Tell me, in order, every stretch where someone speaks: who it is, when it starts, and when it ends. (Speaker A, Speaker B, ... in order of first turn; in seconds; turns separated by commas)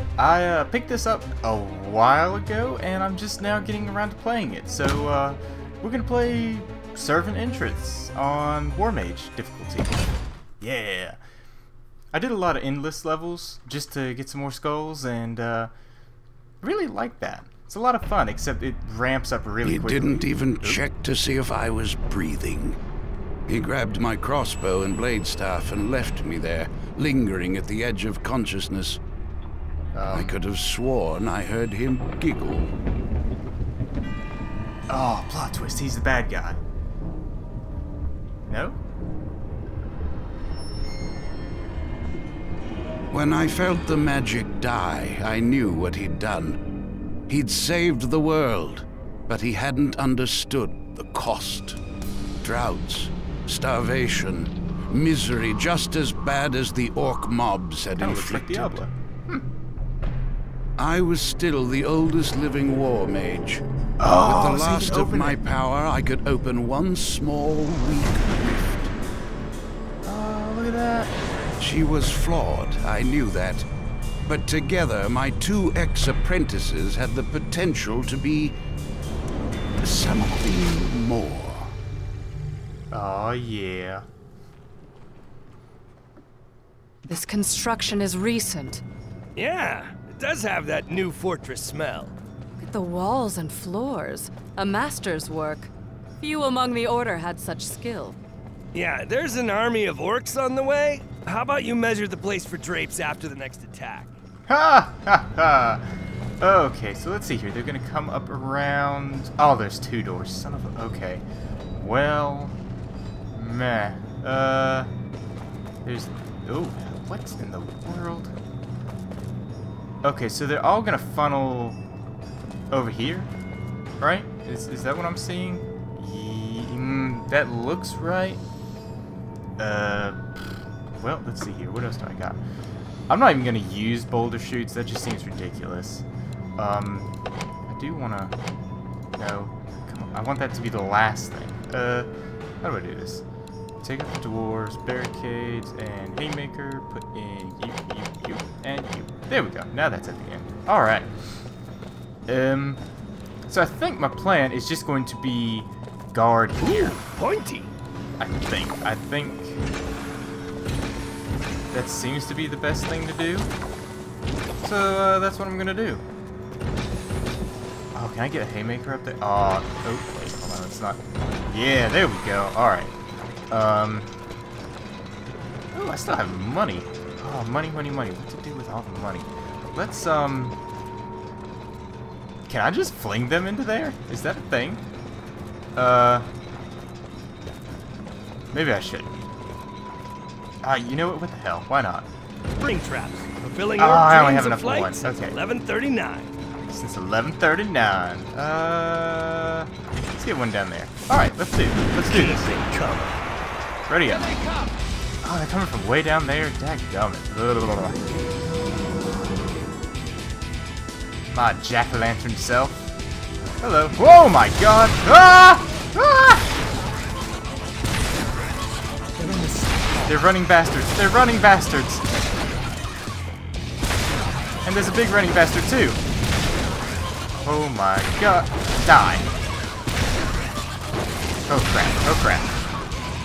Speaker A: 0.2-11.2, Speaker A: 12.1-15.7, Speaker A: 16.6-20.8, Speaker B: 19.6-22.8, Speaker B: 23.5-29.0, Speaker A: 29.9-30.4, Speaker B: 30.1-32.7, Speaker A: 34.9-36.6, Speaker A: 38.5-38.8, Speaker B: 43.1-46.6, Speaker B: 47.3-51.8, Speaker B: 52.4-58.8, Speaker A: 58.0-59.5, Speaker B: 60.8-68.9, Speaker A: 64.0-65.4, Speaker A: 70.0-71.1, Speaker B: 71.6-73.7, Speaker B: 74.2-78.5, Speaker B: 79.8-81.7, Speaker A: 82.9-84.0, Speaker C: 87.1-88.8, Speaker D: 89.3-92.1, Speaker C: 92.6-98.2, Speaker D: 98.7-104.1, Speaker A: 104.5-105.8, Speaker A: 106.4-112.6, Speaker A: 113.3-114.9, Speaker A: 115.8-118.3, Speaker A: 120.0-121.8, Speaker A: 122.7-123.3, Speaker A: 124.0-128.4, Speaker A: 129.6-132.4, Speaker A: 133.1-136.0, Speaker A: 136.6-137.1, Speaker A: 137.7-138.3, Speaker A: 139.2-142.1, Speaker A: 142.6-143.2, Speaker A: 143.8-151.1, Speaker A: 152.3-152.8, Speaker A: 153.5-157.0, Speaker D: 156.6-157.7, Speaker A: 158.2-159.6, Speaker A: 161.7-163.5, Speaker A: 164.6-166.0, Speaker A: 167.9-172.9, Speaker A: 173.5-174.1, Speaker A: 175.7-180.6, Speaker A: 182.5-184.8, Speaker A: 185.8-186.3, Speaker A: 188.5-189.1, Speaker A: 190.6-192.1, Speaker D: 192.5-196.3, Speaker A: 193.8-195.4, Speaker A: 196.7-202.5, Speaker D: 202.0-203.2, Speaker A: 203.9-204.3, Speaker D: 204.1-204.8, Speaker A: 205.2-208.0, Speaker A: 211.3-212.8, Speaker A: 213.6-216.4, Speaker D: 219.2-219.9, Speaker A: 220.1-222.0, Speaker A: 224.6-226.0, Speaker A: 227.3-229.3, Speaker A: 231.5-232.5